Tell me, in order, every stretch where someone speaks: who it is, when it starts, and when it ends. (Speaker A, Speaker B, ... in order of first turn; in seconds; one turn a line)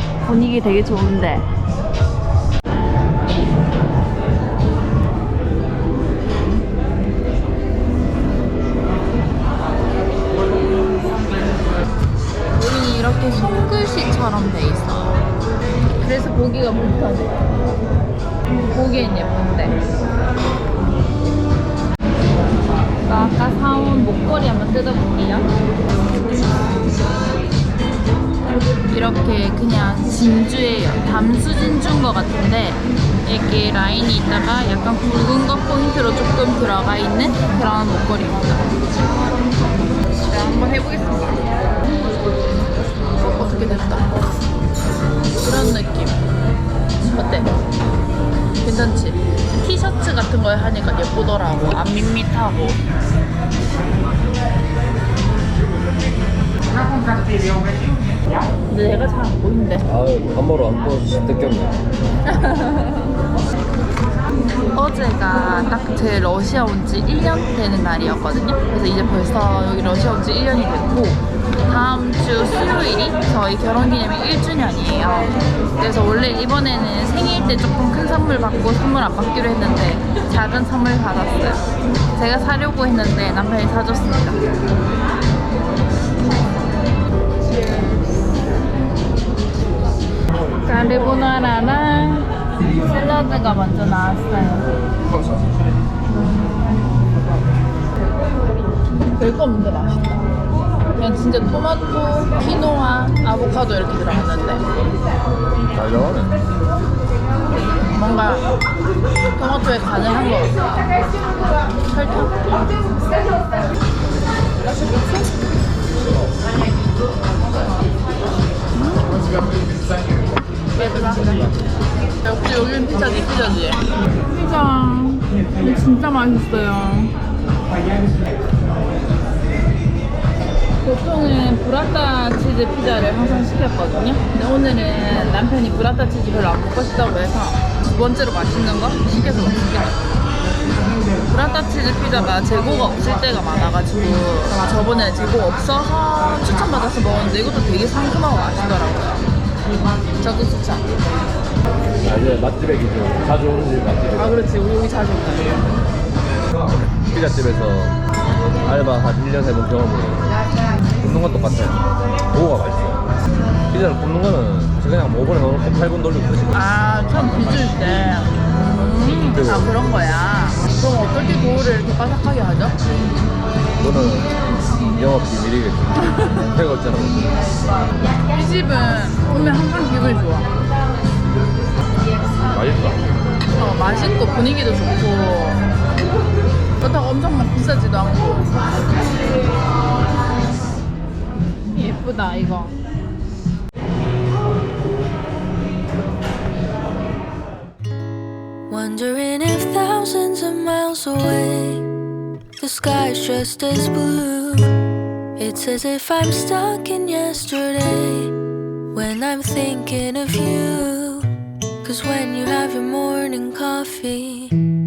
Speaker A: 0.2-1.5
Speaker A: 12.5-15.2
Speaker A: 16.0-17.4
Speaker A: 18.7-19.8
Speaker A: 23.0-25.6
Speaker A: 28.9-38.8
Speaker A: 40.1-41.5
Speaker A: 43.1-44.1
Speaker A: 45.4-46.2
Speaker A: 47.0-47.5
Speaker A: 48.6-52.8
Speaker A: 58.7-59.9
Speaker B: 59.8-61.8
Speaker A: 62.3-63.1
Speaker A: 64.7-84.4
Speaker A: 90.6-94.7
Speaker A: 99.1-100.3
Speaker A: 101.0-104.7
Speaker B: 105.6-106.5
Speaker A: 107.9-108.5
Speaker A: 109.3-111.1
Speaker A: 111.7-112.8
Speaker A: 113.3-113.6
Speaker A: 118.7-119.3
Speaker A: 120.7-121.5
Speaker A: 122.2-127.1
Speaker A: 130.8-140.0
Speaker A: 141.2-149.2
Speaker A: 150.2-150.9
Speaker B: 152.0-154.4
Speaker A: 154.1-155.6
Speaker B: 156.5-158.0
Speaker B: 158.6-163.1
Speaker A: 163.3-163.6
Speaker B: 163.7-166.6
Speaker A: 166.5-172.8
Speaker B: 169.2-169.7
Speaker B: 173.8-177.3
Speaker A: 176.1-176.4
Speaker A: 178.2-180.5
Speaker B: 182.4-183.0
Speaker A: 183.5-185.7
Speaker A: 186.8-189.0
Speaker A: 191.7-192.8
Speaker C: 198.7-201.9
Speaker C: 202.6-204.8
Speaker C: 205.3-208.3
Speaker C: 208.9-211.3
Speaker C: 211.8-214.6